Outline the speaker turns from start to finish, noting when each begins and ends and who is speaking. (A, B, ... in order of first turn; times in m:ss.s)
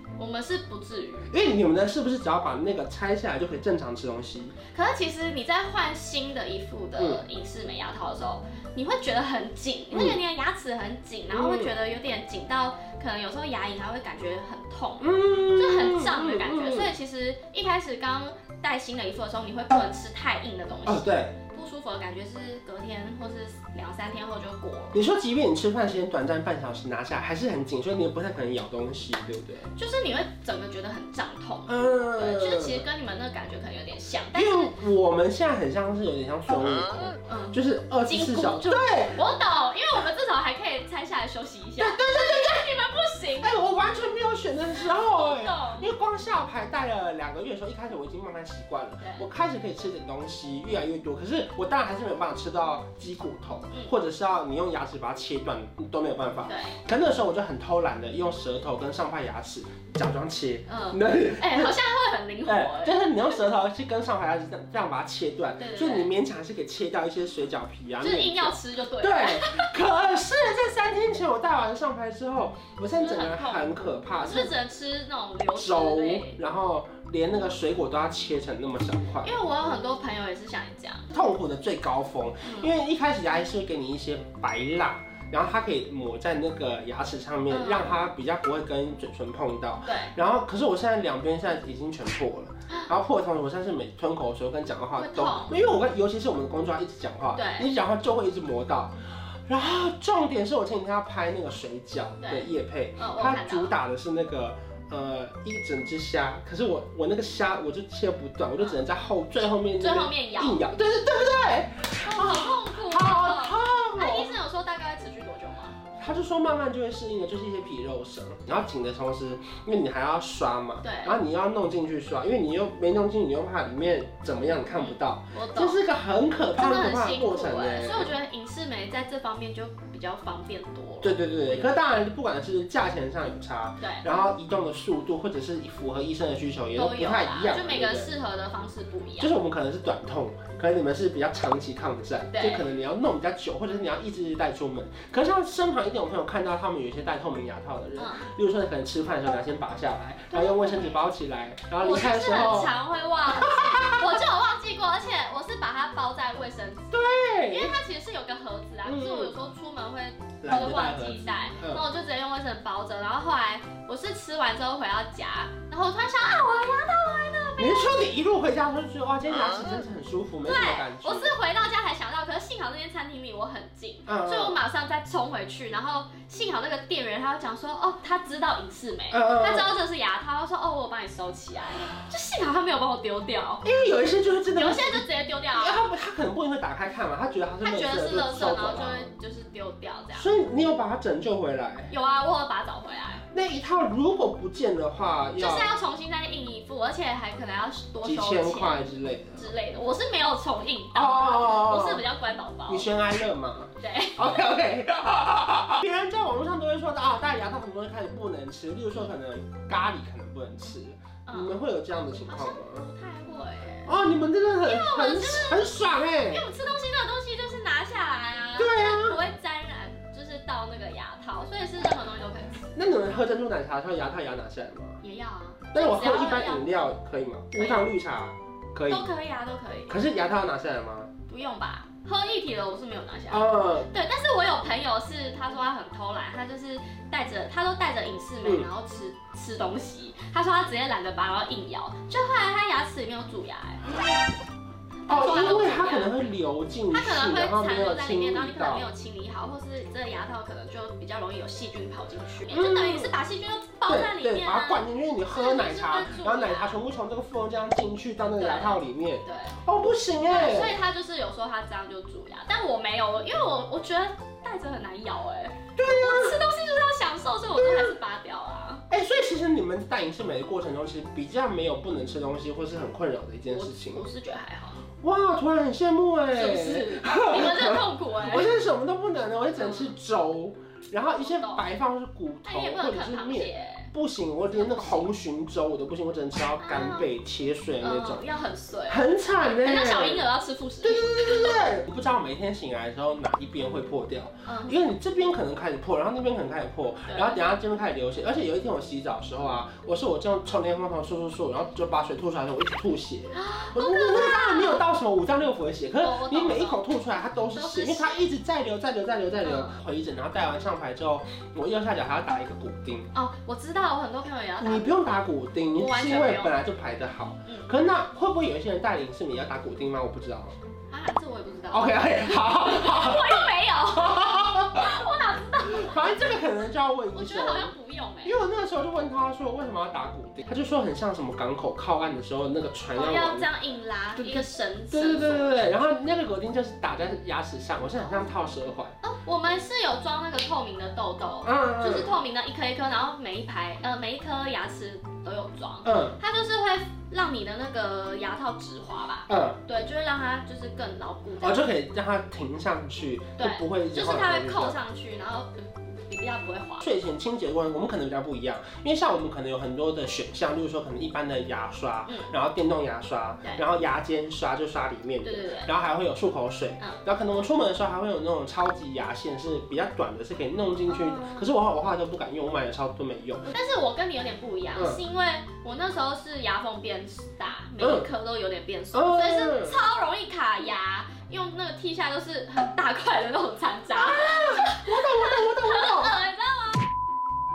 0:00.2-0:01.3 A
0:01.3-0:04.6 B
0:04.7-0:25.0 A
0:07.0-0:07.3 B
0:09.9-0:10.2 B
0:11.3-0:11.8 B
0:15.0-0:16.9 B
0:20.8-0:21.4 B
0:24.9-0:29.7 B
0:29.7-0:34.8 A
0:31.7-0:32.9 B
0:34.3-0:39.2 B
0:37.2-0:43.6 A
0:41.8-0:42.7 B
0:43.4-1:01.8 B
0:44.8-0:45.9 A
0:49.0-0:49.3 A
0:56.4-0:56.8 A
1:00.7-1:03.1 A
1:02.4-1:14.6 B
1:05.6-1:06.1 A
1:08.0-1:09.8 A
1:12.9-1:16.4 A
1:15.6-1:19.4 B
1:19.2-1:21.1 A
1:21.1-1:54.3 B
1:22.4-1:22.7 A
1:27.5-1:28.1 A
1:29.8-1:30.2 A
1:32.7-1:33.0 A
1:35.0-1:35.6 A
1:37.3-1:37.7 A
1:42.2-1:43.8 A
1:49.8-1:50.7 A
1:52.0-1:55.8 A
1:55.9-2:08.2 B
2:00.8-2:01.2 A
2:04.7-2:05.8 A
2:06.5-2:12.0 A
2:11.0-2:18.2 B
2:13.8-2:14.1 A
2:16.8-2:19.4 A
2:19.2-2:32.8 B
2:22.3-2:22.7 A
2:28.0-2:28.3 A
2:30.3-2:31.1 A
2:31.8-2:48.1 A
2:33.3-2:34.1 B
2:36.9-2:37.8 B
2:38.8-2:39.4 B
2:40.4-2:41.9 B
2:47.6-2:51.4 B
2:50.4-3:03.6 A
2:54.1-2:54.6 B
2:59.1-2:59.7 B
3:03.6-3:09.1 B
3:04.5-3:05.9 A
3:07.6-3:10.3 A
3:10.2-3:11.9 B
3:11.9-3:13.2 A
3:13.3-3:15.7 B
3:15.4-3:22.9 A
3:18.0-3:19.5 B
3:20.9-3:22.1 B
3:22.7-3:32.9 B
3:23.8-3:24.5 A
3:31.3-3:34.0 A
3:33.8-3:36.5 B
3:34.6-3:42.7 A
3:38.6-3:39.2 B
3:42.7-3:45.0 B
3:45.0-3:46.9 A
3:45.7-3:49.1 B
3:47.6-3:47.9 A
3:48.9-3:50.0 A
3:49.9-3:51.1 B
3:51.3-4:03.8 A
3:53.3-3:53.9 B
3:58.4-3:58.7 B
4:05.1-4:06.2 A
4:05.1-4:08.8 B
4:06.9-4:16.8 A
4:12.5-4:13.1 B
4:13.9-4:20.8 B
4:18.4-4:19.6 A
4:20.2-4:28.8 A
4:25.7-4:26.4 B
4:27.5-4:28.0 B
4:28.9-4:34.0 B
4:33.5-4:34.9 A
4:34.9-4:48.3 B
4:36.3-4:38.5 A
4:39.6-4:40.0 A
4:41.2-4:41.7 A
4:42.4-4:43.9 A
4:44.5-4:45.1 A
4:46.6-4:47.1 A
4:47.8-4:51.7 A
4:48.9-4:50.3 B
4:50.8-5:13.1 B
4:54.5-4:54.8 A
4:57.1-4:57.4 A
5:03.3-5:04.8 A
5:06.0-5:06.9 A
5:07.5-5:08.3 A
5:09.4-5:09.8 A
5:13.1-5:16.6 A
5:14.6-5:20.6 B
5:17.5-5:17.7 A
5:20.9-5:26.2 A
5:21.7-5:33.5 B
5:27.1-5:28.4 A
5:32.9-5:35.9 A
5:34.2-5:39.0 B
5:37.8-5:38.3 A
5:39.0-5:51.7 A
5:41.4-5:42.2 B
5:45.8-5:46.2 B
5:49.3-5:49.6 B
5:51.4-5:54.8 B
5:53.4-5:56.8 A
5:56.8-6:13.5 B
6:02.1-6:02.4 A
6:05.2-6:05.7 A
6:10.8-6:11.5 A
6:13.4-6:26.9 A
6:14.8-6:15.0 B
6:17.8-6:18.1 B
6:18.9-6:19.8 B
6:24.0-6:26.2 B